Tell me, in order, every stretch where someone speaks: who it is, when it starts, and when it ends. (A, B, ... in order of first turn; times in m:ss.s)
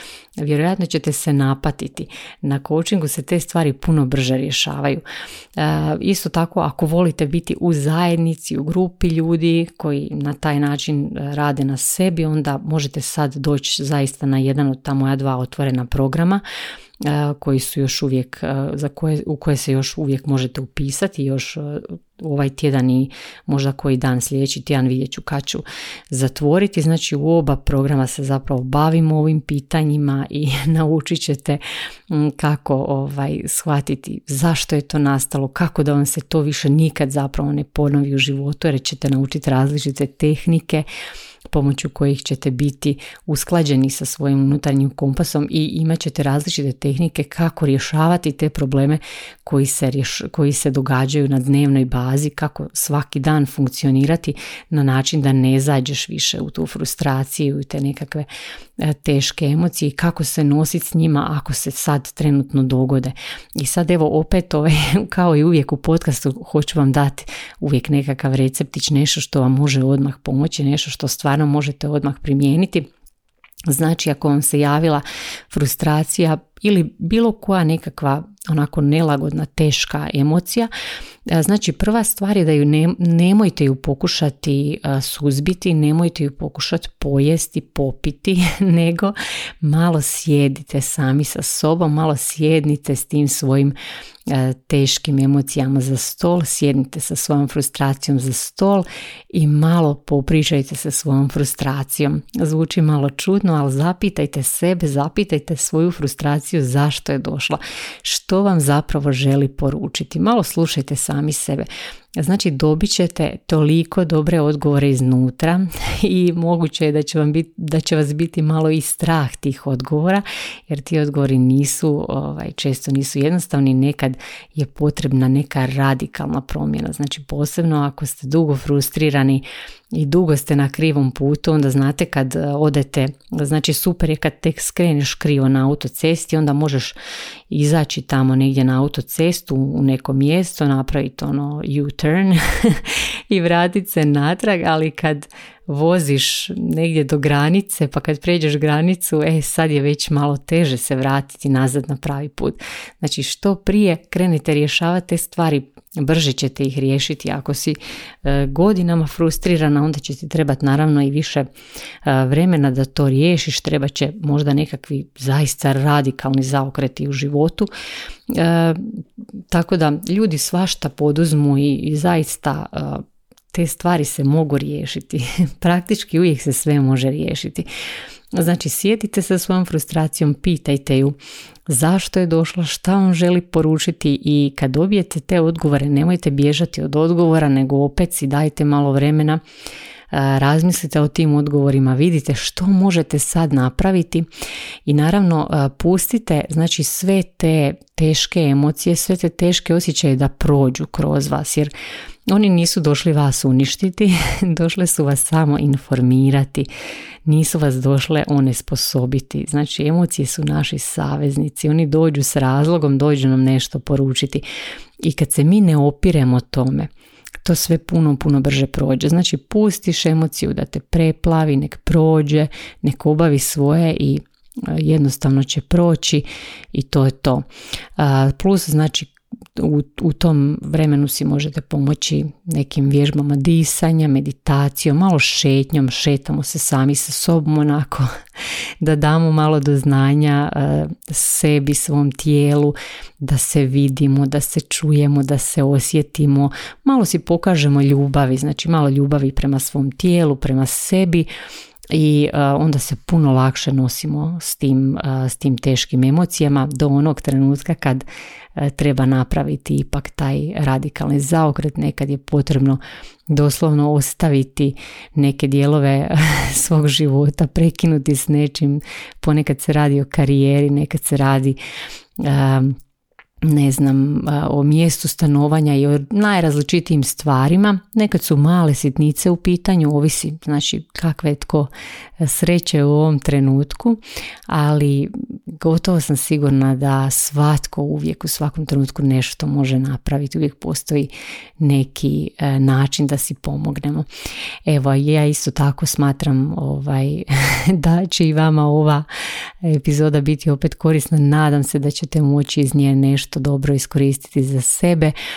0:00.4-0:05.0 A
0:05.6-0:16.4 A
0:17.0-0:40.9 A
0:41.5-0:58.3 A
0:58.8-1:12.9 A
1:13.7-1:20.7 A
1:21.3-1:33.8 A
1:34.3-1:51.7 A
1:52.2-2:17.0 A
2:17.5-2:41.5 A
2:42.0-2:47.7 A
2:48.3-2:49.0 A
2:49.5-2:57.7 A
2:58.4-3:01.2 A
3:01.7-3:09.4 A
3:10.1-3:14.3 A
3:14.9-3:21.7 A
3:22.3-3:26.7 A
3:27.2-3:34.4 A
3:35.0-3:36.9 A
3:37.4-3:47.4 A
3:48.0-3:58.1 A
3:58.8-4:11.3 A
4:11.9-4:31.6 A
4:32.2-4:32.8 A
4:33.4-4:54.1 A
4:54.7-4:59.1 A
4:59.6-5:05.1 A